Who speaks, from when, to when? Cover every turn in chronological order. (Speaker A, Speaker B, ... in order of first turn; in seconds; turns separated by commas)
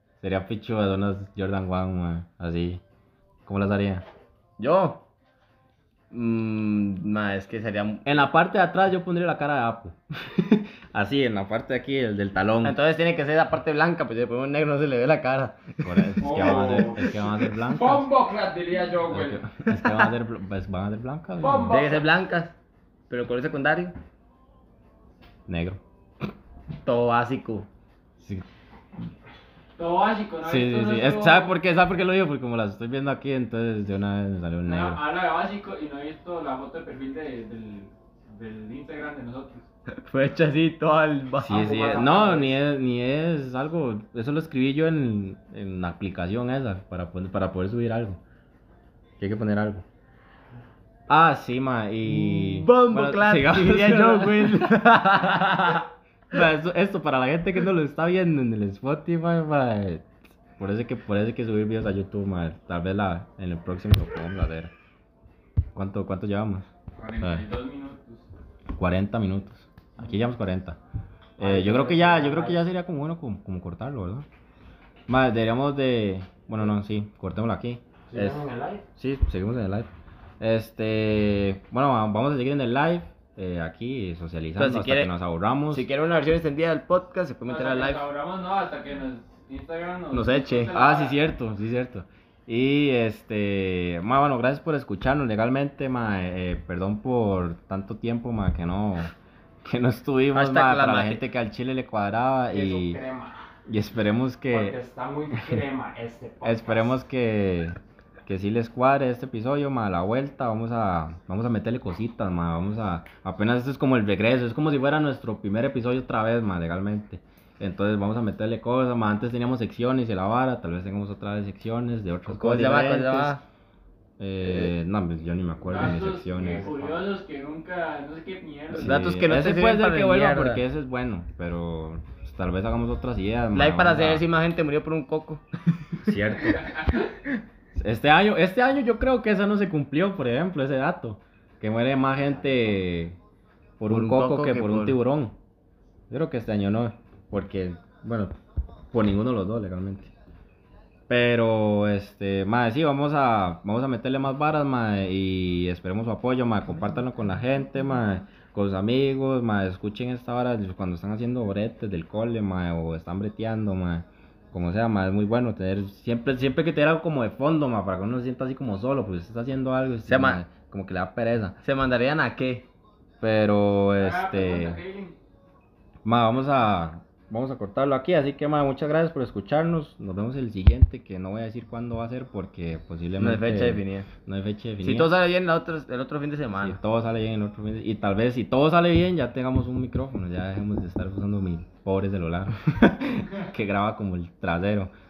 Speaker A: 0.2-2.8, Speaker A: 3.5-4.0, Speaker B: 4.6-5.0, Speaker B: 6.1-8.2, Speaker A: 8.0-12.8, Speaker B: 12.6-16.4, Speaker A: 15.8-18.1, Speaker C: 16.2-19.4, Speaker A: 19.1-21.8, Speaker C: 21.4-22.0, Speaker B: 21.7-22.5, Speaker B: 23.1-23.9, Speaker A: 25.5-25.8, Speaker B: 26.8-27.6, Speaker A: 28.2-28.4, Speaker D: 29.8-31.5, Speaker A: 30.4-35.0, Speaker D: 34.6-39.6, Speaker B: 40.0-41.7, Speaker A: 41.4-48.2, Speaker C: 41.5-42.6, Speaker A: 49.2-49.8, Speaker A: 51.1-55.8, Speaker B: 52.0-55.8, Speaker A: 56.3-64.7, Speaker A: 65.7-66.7, Speaker D: 67.0-68.2, Speaker A: 68.7-70.8, Speaker A: 71.4-74.2, Speaker C: 71.4-72.6, Speaker A: 75.1-78.4, Speaker C: 78.1-78.8, Speaker A: 79.0-79.9, Speaker A: 80.4-85.9, Speaker B: 84.6-85.1, Speaker B: 85.7-88.0, Speaker D: 87.5-91.2, Speaker B: 90.1-90.7, Speaker A: 90.7-99.1, Speaker A: 99.6-103.0, Speaker B: 100.3-101.2, Speaker C: 102.5-103.4, Speaker A: 103.7-104.8, Speaker C: 104.5-107.0, Speaker A: 106.4-123.4, Speaker B: 122.3-123.4, Speaker A: 124.2-127.1, Speaker D: 125.7-128.9, Speaker B: 128.7-130.6, Speaker A: 128.7-134.2, Speaker B: 133.5-135.4, Speaker A: 136.0-136.7, Speaker D: 136.6-137.1, Speaker A: 137.7-143.2, Speaker A: 143.8-145.3, Speaker B: 143.9-145.0, Speaker A: 146.1-148.3, Speaker A: 148.9-150.1, Speaker A: 151.1-171.6, Speaker B: 170.1-170.4, Speaker B: 171.6-172.7, Speaker A: 173.2-174.8, Speaker D: 174.0-175.2, Speaker A: 176.0-185.1, Speaker B: 183.2-184.1, Speaker B: 184.8-186.8, Speaker A: 186.6-194.9